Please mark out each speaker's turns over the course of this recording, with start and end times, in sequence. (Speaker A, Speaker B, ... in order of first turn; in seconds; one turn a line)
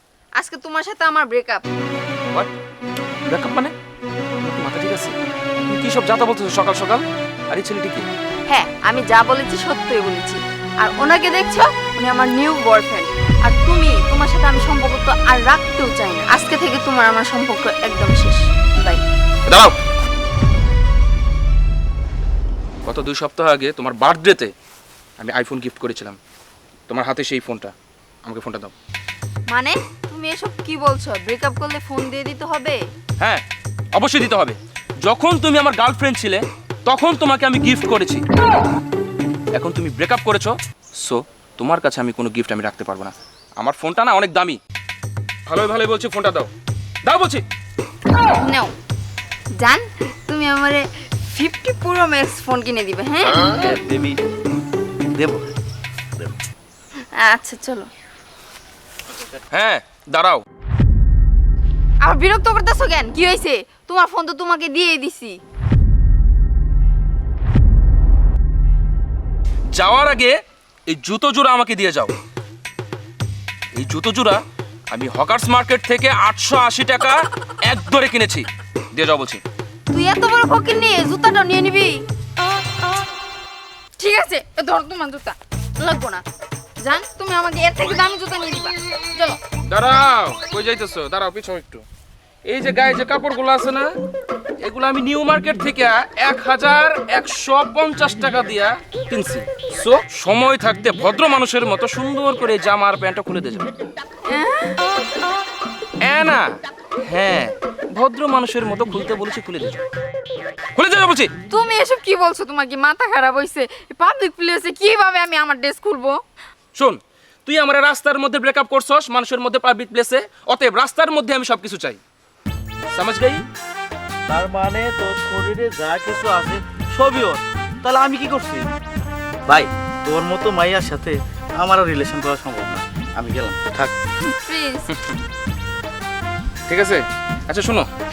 Speaker A: 0.4-1.7
Speaker B: 3.2-3.7
Speaker B: 4.4-5.2
Speaker B: 5.7-8.1
Speaker A: 8.5-19.0
Speaker B: 19.4-19.8
Speaker B: 22.8-24.5
Speaker B: 25.2-26.2
Speaker B: 26.9-27.7
Speaker B: 28.2-28.7
Speaker A: 29.5-32.8
Speaker B: 33.2-33.4
Speaker B: 33.9-38.2
Speaker B: 39.5-44.6
Speaker B: 45.5-46.5
Speaker B: 47.0-47.4
Speaker A: 48.4-48.7
Speaker A: 49.6-53.5
Speaker C: 53.5-54.2
Speaker C: 55.1-55.5
Speaker A: 57.1-57.9
Speaker B: 59.5-60.4
Speaker A: 62.0-65.4
Speaker B: 69.7-72.1
Speaker B: 73.7-74.4
Speaker B: 74.9-79.4
Speaker A: 79.9-82.0
Speaker A: 84.0-86.2
Speaker A: 86.8-89.4
Speaker B: 89.7-91.8
Speaker B: 92.4-93.9
Speaker B: 94.6-103.7
Speaker A: 104.2-104.9
Speaker B: 106.0-106.5
Speaker B: 107.0-109.8
Speaker B: 110.8-111.3
Speaker A: 111.5-116.2
Speaker B: 116.7-122.0
Speaker B: 122.9-123.4
Speaker C: 124.3-128.7
Speaker C: 129.5-133.9
Speaker A: 134.2-134.9
Speaker B: 134.9-135.2
Speaker B: 136.7-137.9